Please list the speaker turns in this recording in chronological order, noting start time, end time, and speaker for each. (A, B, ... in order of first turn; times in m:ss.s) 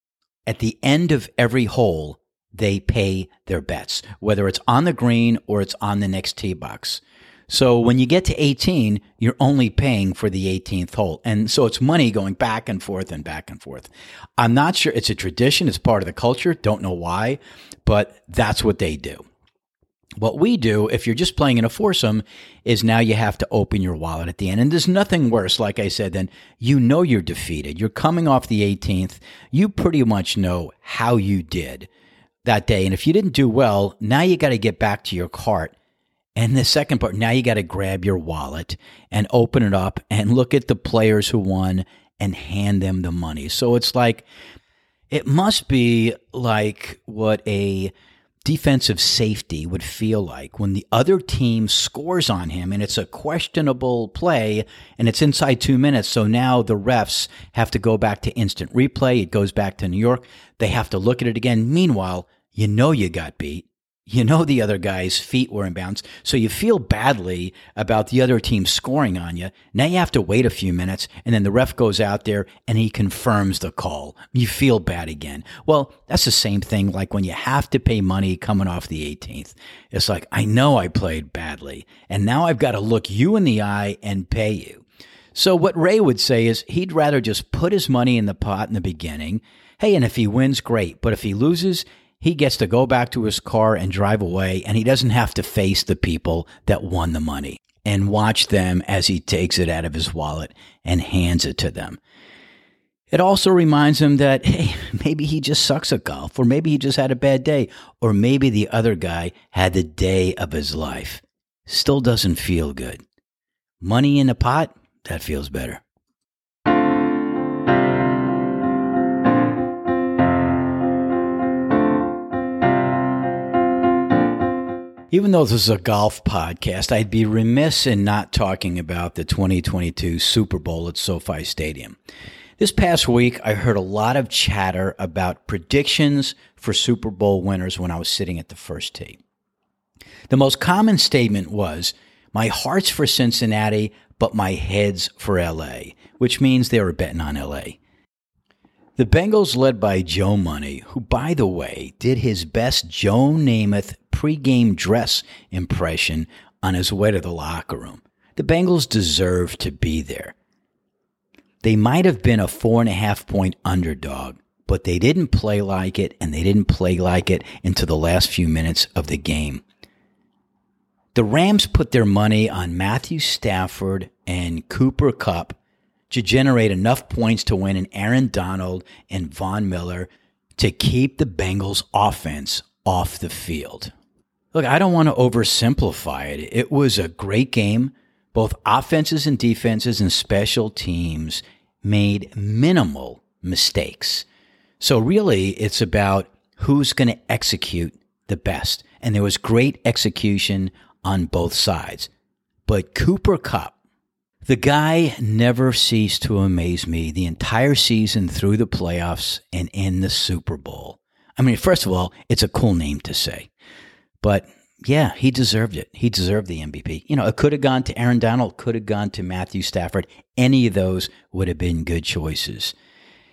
0:00.5-0:19.2 A
0:20.2-0:31.9 A
0:32.4-0:35.7 A
0:36.4-0:44.2 A
0:45.1-0:47.9 A
0:48.4-1:24.8 A
1:25.3-1:42.0 A
1:43.1-1:53.0 A
1:53.8-1:55.8 A
2:05.1-2:12.0 A
2:12.6-2:19.2 A
2:20.3-2:27.8 A
2:29.0-2:40.3 A
2:41.6-2:49.6 A
2:51.1-2:55.6 A
2:56.1-3:03.9 A
3:04.5-3:14.2 A
3:14.8-3:22.1 A
3:22.7-3:23.7 A
3:24.4-3:33.5 A
3:34.2-3:42.7 A